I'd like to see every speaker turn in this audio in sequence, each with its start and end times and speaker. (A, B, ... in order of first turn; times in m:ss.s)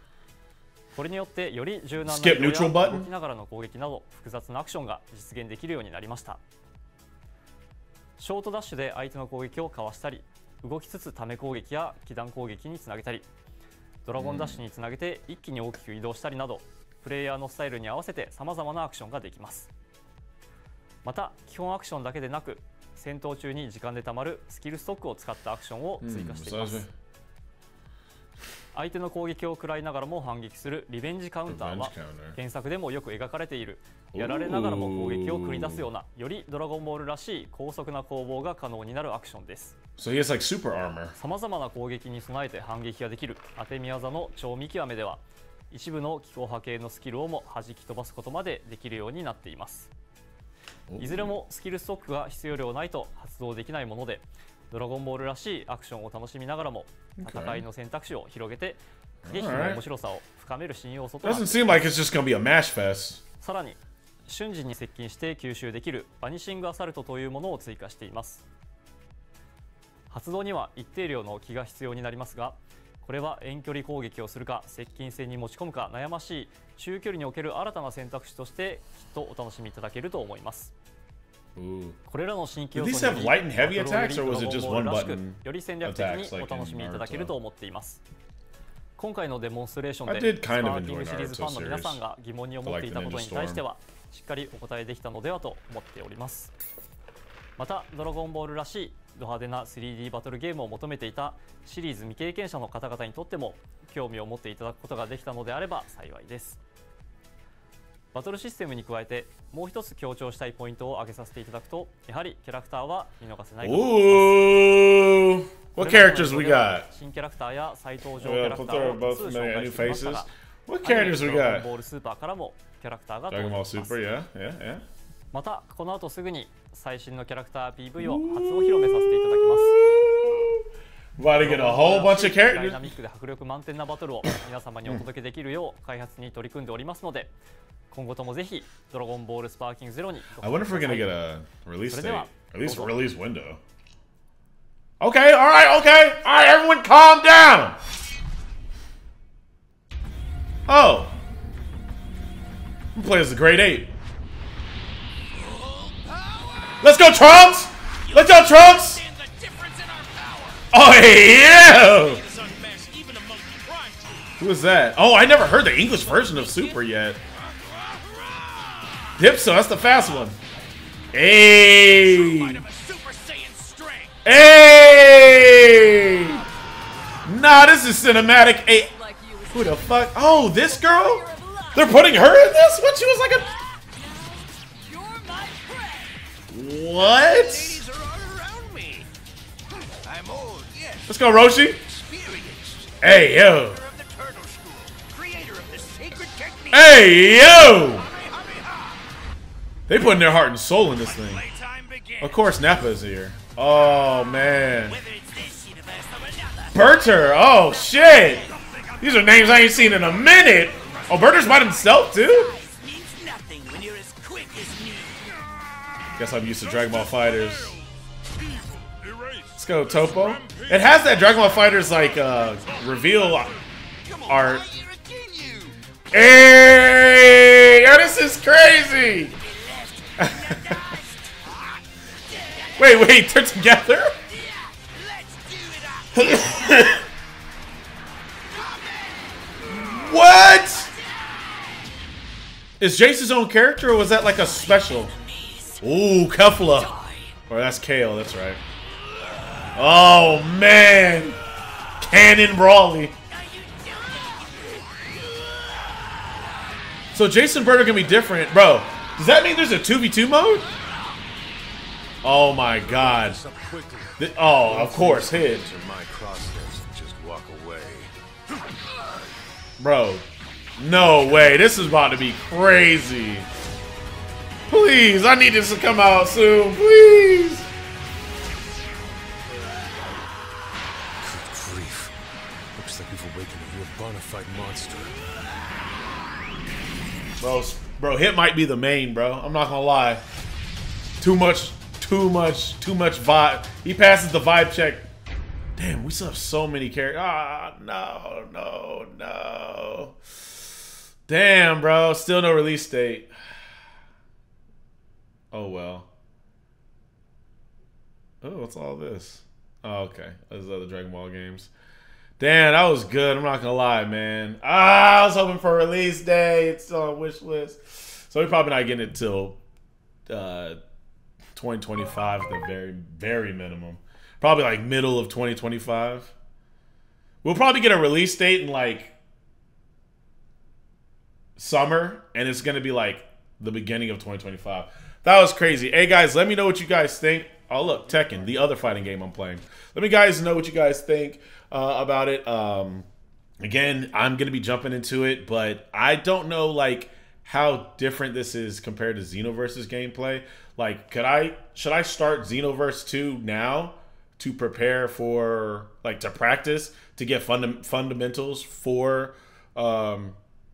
0:00.9-0:06.4 A
0:02.0-0:03.1 B
0:08.2-0:13.3 A
0:14.0-0:19.7 A
0:14.2-0:14.6 B
0:21.0-0:26.8 A
0:26.0-0:26.9 B
0:28.7-0:39.8 A
0:31.5-0:32.4 B
0:34.1-0:35.9 B
0:40.0-0:41.2 B
0:41.2-0:49.9 A
0:50.9-0:51.4 B
0:51.0-1:02.0 A
0:57.2-0:57.7 B
0:59.2-0:59.8 B
1:01.2-1:03.2 B
1:03.4-1:08.4 A
1:10.1-1:20.7 A
1:21.6-1:22.0 B
1:22.1-1:28.0 A
1:22.7-1:27.3 B
1:29.0-1:36.5 A
1:30.1-1:32.0 B
1:32.6-1:33.6 B
1:37.6-1:46.6 A
1:48.1-1:54.8 A
1:53.6-1:56.9 B
1:55.8-2:00.3 A
1:58.2-2:01.7 B
2:00.8-2:04.0 A
2:03.3-2:04.8 B
2:05.3-2:09.8 A
2:08.0-2:10.6 B
2:11.2-2:12.8 B
2:11.4-2:17.3 A
2:17.9-2:21.2 A
2:20.4-2:23.6 B
2:21.9-2:23.0 A
2:25.0-2:27.8 B
2:30.7-2:31.1 B
2:33.0-2:33.9 B
2:35.5-2:36.9 C
2:36.8-2:39.0 B
2:38.0-2:40.7 C
2:40.7-2:42.2 B
2:41.6-2:44.3 C
2:44.4-2:47.2 B
2:45.8-2:46.8 C
2:47.4-2:49.2 C
2:49.2-2:50.4 B
2:51.1-2:52.6 B
2:51.9-2:54.2 C
2:54.2-2:56.4 B
2:57.2-2:58.9 B
2:59.0-2:59.5 C
2:59.5-3:03.5 B
3:01.2-3:01.8 C
3:03.8-3:06.2 C
3:06.5-3:07.8 B
3:07.0-3:09.1 C
3:10.0-3:11.1 C
3:11.1-3:11.8 B
3:11.9-3:19.0 C
3:13.0-3:13.8 B
3:16.7-3:18.1 B
3:19.9-3:21.4 B
3:21.2-3:22.4 C
3:22.2-3:25.0 B
3:24.9-3:26.7 C
3:26.7-3:28.5 B
3:28.2-3:30.0 C
3:29.0-3:32.6 B
3:30.9-3:31.6 C
3:32.3-3:35.4 C
3:36.2-3:37.8 B
3:38.9-3:39.5 C
3:39.6-3:43.5 B
3:44.0-3:45.8 C
3:44.3-3:44.7 B
3:46.1-3:49.4 B
3:49.4-3:51.8 C
3:50.2-3:50.8 B
3:52.3-3:52.8 C
3:52.8-3:54.1 B
3:54.3-3:56.3 C
3:56.2-3:57.0 B
3:58.5-4:01.8 C
3:59.7-4:00.9 B
4:02.8-4:05.2 B
4:04.4-4:05.8 C
4:05.8-4:06.9 B
4:06.9-4:07.3 C
4:07.5-4:08.6 B
4:09.8-4:11.4 B
4:12.0-4:13.1 B
4:13.3-4:15.1 C
4:17.1-4:20.7 B
4:22.2-4:23.4 B
4:22.8-4:28.1 D
4:24.2-4:25.7 B
4:29.8-4:30.3 B
4:30.8-4:33.5 B
4:34.7-4:37.7 B
4:41.2-4:42.1 D
4:42.8-4:45.2 D
4:47.4-4:50.2 B
4:51.2-4:55.1 B
4:55.8-5:00.2 B
5:01.3-5:03.3 B
5:05.5-5:06.1 B
5:08.4-5:11.7 B
5:12.4-5:19.6 B
5:20.3-5:20.8 B
5:21.6-5:26.3 B
5:27.4-5:29.2 B
5:31.6-5:43.1 B
5:43.6-6:00.4 B